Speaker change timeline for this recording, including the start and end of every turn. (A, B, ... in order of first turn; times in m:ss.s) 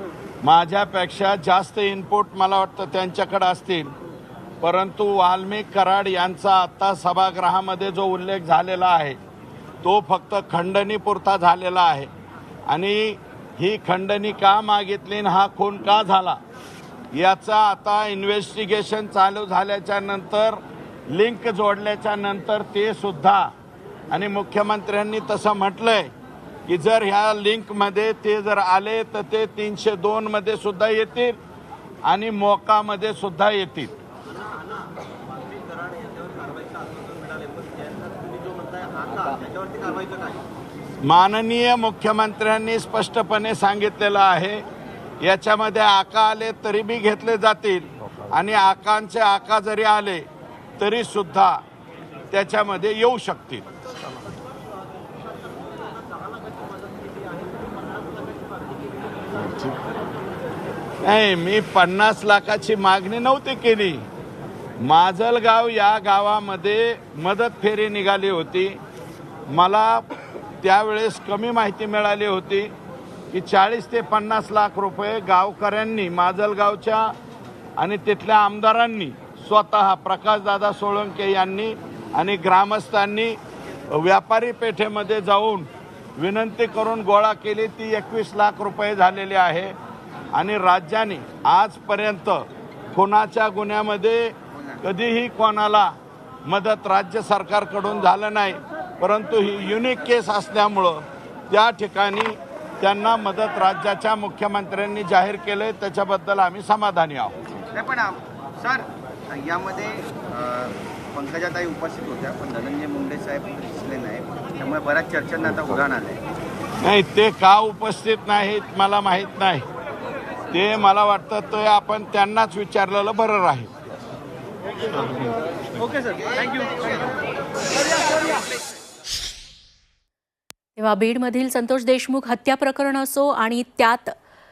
0:00.4-0:03.9 A
0:04.6-0:09.2 A
0:09.8-0:12.1 A
0:12.7-0:16.4 A
0:17.1-0:23.5 A
0:24.1-0:26.1 A
0:26.7-0:31.4 A
0:32.0-0:33.9 A
0:34.4-0:40.4 B
0:41.0-0:44.6 A
0:45.2-0:50.2 A
0:50.8-0:51.6 A
0:52.3-0:53.6 A
1:01.0-1:04.0 A
1:04.8-1:08.8 A
1:09.5-1:10.0 A
1:10.6-1:12.7 A
1:13.3-1:17.1 A
1:17.8-1:23.4 A
1:23.9-1:29.7 A
1:30.3-1:35.9 A
1:36.5-1:47.4 A
1:47.7-1:56.2 B
1:56.8-1:59.6 A
2:00.5-2:03.7 A
2:06.4-2:06.8 B
2:10.8-2:14.1 C